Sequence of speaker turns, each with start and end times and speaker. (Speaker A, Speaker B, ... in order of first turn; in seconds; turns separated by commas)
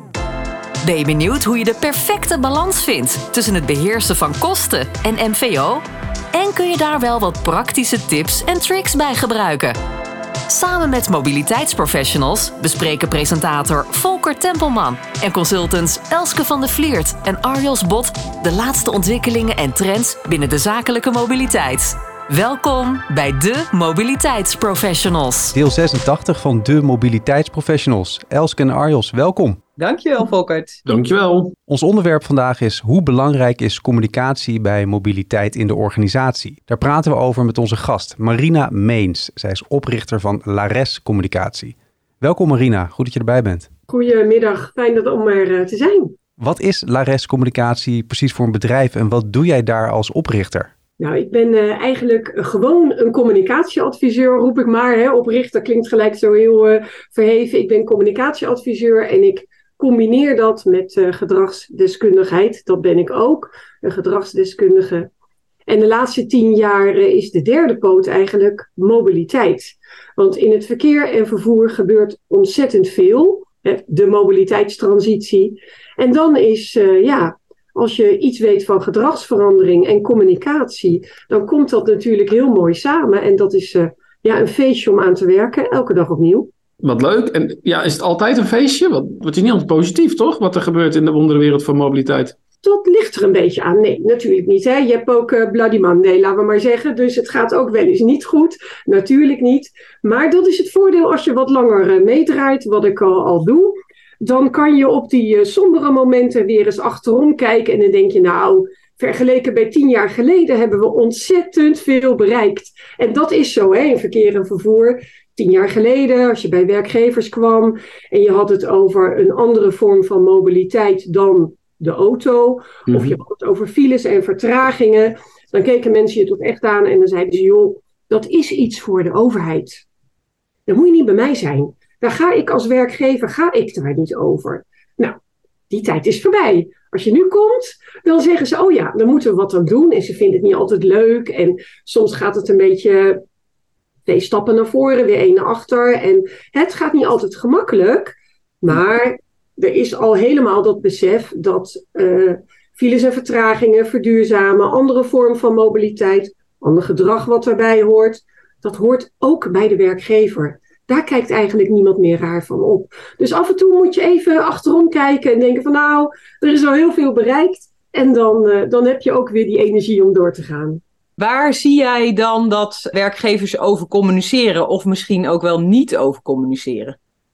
Speaker A: 0.8-9.8, Speaker A: 10.5-25.5, Speaker B: 25.5-29.6, Speaker C: 29.8-30.8, Speaker D: 30.8-31.5, Speaker B: 31.7-43.7, Speaker E: 43.9-46.1, Speaker B: 46.4-50.7, Speaker E: 51.0-65.1, Speaker E: 65.7-86.5, Speaker D: 86.8-92.3, Speaker E: 92.6-129.8, Speaker D: 122.9-123.2, Speaker E: 130.7-135.1, Speaker E: 135.7-143.2, Speaker E: 144.1-170.8, Speaker C: 171.2-176.9